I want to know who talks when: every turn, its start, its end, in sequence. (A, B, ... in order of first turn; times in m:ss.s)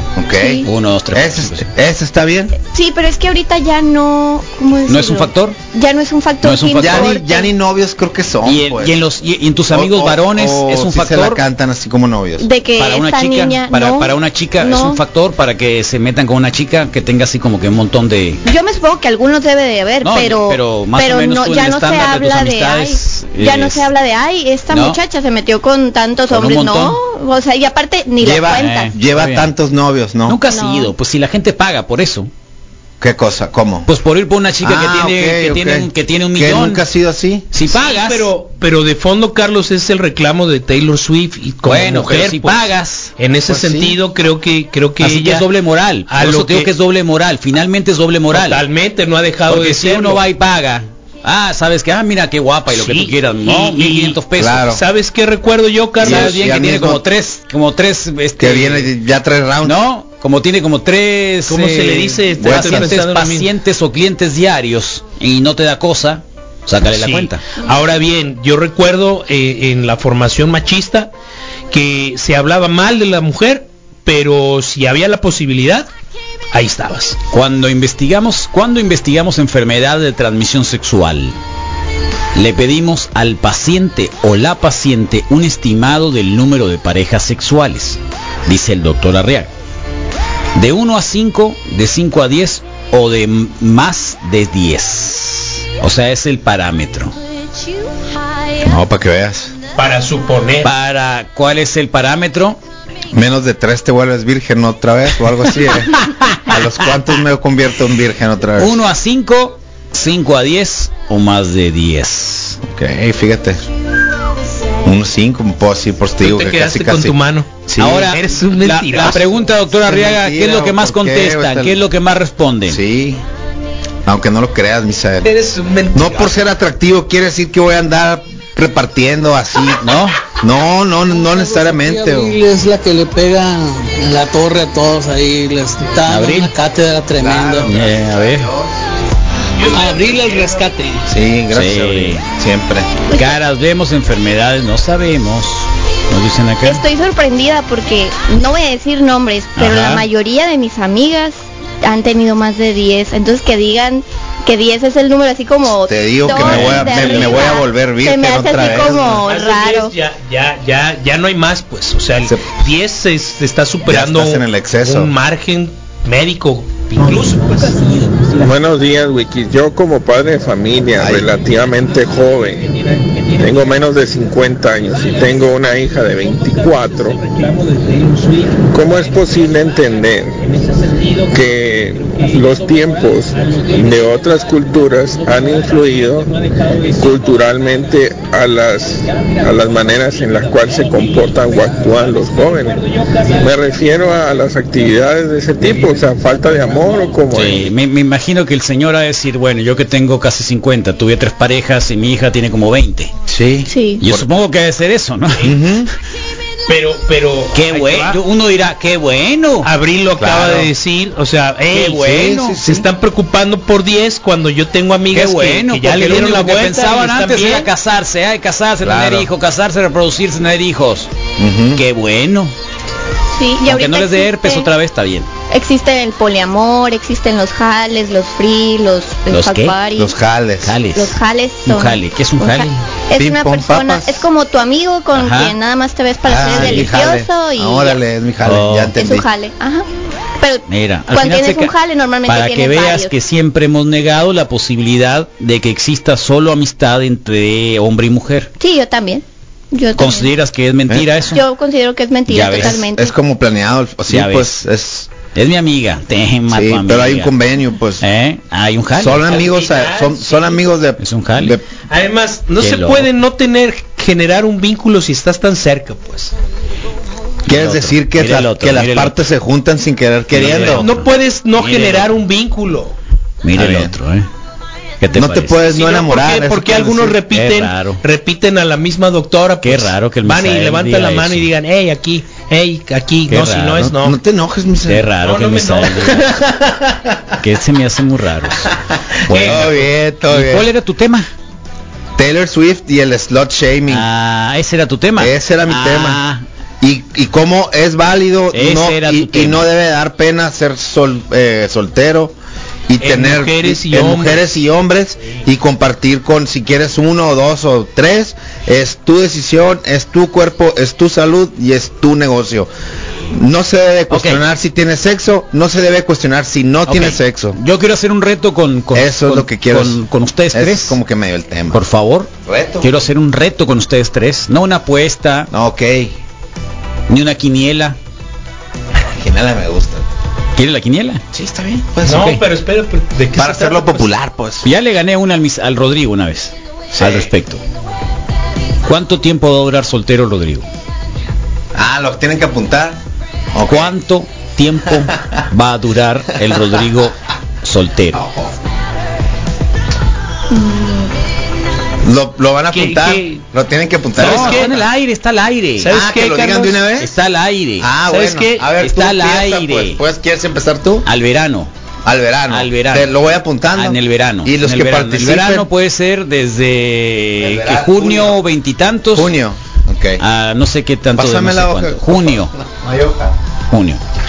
0:00.2-0:02.6 A
0:00.4-0:00.7 B
0:00.6-0:01.6 C
0:02.6-0:07.5 B
0:04.9-0:05.6 C
0:06.4-0:07.1 C
0:06.8-0:09.0 A
0:08.4-0:11.4 C
0:09.7-0:12.5 A
0:12.4-0:15.0 B
0:12.8-0:18.4 C
0:18.5-0:28.9 B
0:20.0-0:23.9 C
0:24.7-0:25.0 C
0:26.3-0:27.0 C
0:28.2-0:30.4 A
0:28.4-0:29.5 C
0:30.3-0:32.3 C
0:30.5-0:30.9 B
0:33.0-0:33.9 A
0:33.9-0:36.8 C
0:34.6-0:37.5 A
0:37.5-0:38.3 C
0:37.7-0:45.5 D
0:41.6-0:43.1 C
0:43.5-0:44.0 A
0:45.0-0:48.6 C
0:46.1-0:46.7 D
0:48.3-0:50.2 D
0:49.5-0:54.7 C
0:52.7-0:56.4 D
0:54.4-0:54.8 A
0:56.0-0:57.0 A
0:56.0-0:58.9 C
0:58.4-0:59.8 A
0:59.6-1:07.5 C
1:01.5-1:03.5 D
1:02.4-1:02.9 A
1:06.9-1:11.1 D
1:11.7-1:15.9 D
1:16.5-1:17.2 D
1:17.3-1:21.4 C
1:22.4-1:29.5 C
1:30.6-1:37.2 C
1:38.6-1:39.6 A
1:39.8-1:40.7 D
1:40.6-1:42.6 C
1:43.1-1:48.8 A
1:46.0-1:46.6 C
1:48.6-1:52.6 C
1:52.6-1:53.6 A
1:54.8-1:57.2 A
1:56.2-1:59.2 D
1:57.7-1:58.0 A
1:57.8-2:02.8 C
1:59.8-2:01.8 A
2:02.7-2:03.2 A
2:04.1-2:05.3 A
2:05.2-2:06.4 D
2:05.9-2:12.4 A
2:09.8-2:10.2 C
2:11.2-2:17.7 E
2:16.0-2:16.5 C
2:17.2-2:18.8 A
2:17.6-2:18.5 C
2:19.6-2:21.2 D
2:19.7-2:20.7 E
2:21.1-2:23.0 A
2:21.5-2:22.2 C
2:23.1-2:23.4 B
2:23.1-2:26.8 C
2:26.6-2:40.0 B
2:29.6-2:30.0 C
2:35.9-2:39.2 A
2:36.3-2:37.5 C
2:39.1-2:48.6 D
2:42.2-2:42.5 A
2:43.8-2:45.1 A
2:48.4-2:52.7 F
2:51.0-2:51.3 A
2:52.9-2:53.2 D
2:53.4-2:57.2 F
2:56.8-2:58.7 D
2:58.7-3:00.5 F
3:00.6-3:01.3 D
3:01.3-3:06.3 F
3:02.1-3:04.3 D
3:05.3-3:07.0 D
3:06.9-3:17.7 F
3:11.1-3:13.5 D
3:17.3-3:23.1 C
3:23.3-3:24.3 A
3:23.7-3:24.0 B
3:24.0-3:25.6 C
3:25.4-3:25.9 A
3:26.7-3:28.2 D
3:27.5-3:29.7 C
3:29.6-3:37.7 D
3:30.2-3:30.7 A
3:31.7-3:32.6 C
3:32.0-3:32.9 A
3:35.1-3:41.1 C
3:38.8-3:39.3 A
3:41.4-3:41.8 A
3:41.8-3:42.5 C
3:43.4-3:44.7 B
3:43.6-3:45.3 C
3:45.5-3:50.1 B
3:49.3-3:49.8 C
3:50.0-3:50.8 A
3:50.6-3:52.8 C
3:51.0-3:58.0 B
3:53.2-3:54.3 A
3:55.1-3:55.6 C
3:56.3-3:59.3 A
3:56.4-3:56.9 C
3:58.4-3:58.9 C
3:59.0-3:59.9 B
4:00.4-4:03.1 B
4:00.7-4:01.7 C
4:02.3-4:08.5 C
4:08.6-4:10.3 B
4:10.0-4:11.4 C
4:11.3-4:13.2 B
4:12.3-4:12.8 C
4:12.6-4:15.1 A
4:14.1-4:14.6 C
4:15.3-4:17.3 C
4:16.5-4:18.0 A
4:18.0-4:19.4 C
4:19.0-4:21.6 A
4:19.2-4:20.6 D
4:21.0-4:21.6 C
4:21.9-4:26.3 D
4:22.6-4:23.1 C
4:27.5-4:29.2 C
4:27.5-4:30.9 A
4:30.3-4:32.1 C
4:30.6-4:33.0 D
4:33.4-4:34.3 C
4:33.5-4:34.0 A
4:35.0-4:35.6 C
4:35.2-4:37.2 A
4:35.6-4:44.2 D
4:37.3-4:38.0 C
4:39.6-4:41.5 C
4:43.3-4:44.0 C
4:44.0-4:45.1 A
4:44.9-4:46.3 C
4:45.2-4:46.2 D
4:46.3-4:47.2 A
4:47.4-4:48.7 C
4:48.7-4:50.7 A
4:49.3-4:51.3 C
4:49.3-4:49.7 D
4:52.2-4:54.1 A
4:53.9-4:56.4 C
4:55.2-4:56.2 A
4:56.8-5:02.4 A
4:58.5-4:59.7 C
5:02.9-5:12.7 A
5:03.0-5:04.4 D
5:13.3-5:17.6 A
5:14.1-5:14.4 C
5:16.9-5:21.0 C
5:18.9-5:20.0 A
5:20.5-5:21.8 A
5:21.7-5:25.5 C
5:22.4-5:23.0 A
5:25.5-5:26.2 A
5:27.1-5:28.0 C
5:29.0-5:30.0 A
5:30.6-5:31.2 C
5:31.3-5:32.4 A
5:32.0-5:34.1 D
5:33.4-5:34.7 A
5:34.6-5:37.6 C
5:36.9-5:37.3 A
5:38.9-5:40.7 C
5:41.8-5:43.0 A
5:43.5-5:44.0 A
5:43.7-5:48.2 C
5:44.9-5:45.4 A
5:48.2-5:48.5 A
5:50.5-5:51.0 B
5:52.0-5:54.8 A
5:52.7-5:53.4 D
5:54.2-5:56.0 C
5:54.2-5:54.8 D
5:55.8-5:56.8 D
5:55.9-5:57.1 A
5:57.0-5:57.9 C
5:57.8-6:01.1 A
5:58.1-5:58.7 D
5:58.8-6:00.0 C
6:01.1-6:01.7 C
6:02.0-6:05.7 A
6:02.5-6:03.2 C
6:03.7-6:09.3 C
6:07.4-6:08.4 A
6:09.1-6:10.2 A
6:10.2-6:12.5 C
6:11.2-6:13.4 A
6:13.7-6:14.0 C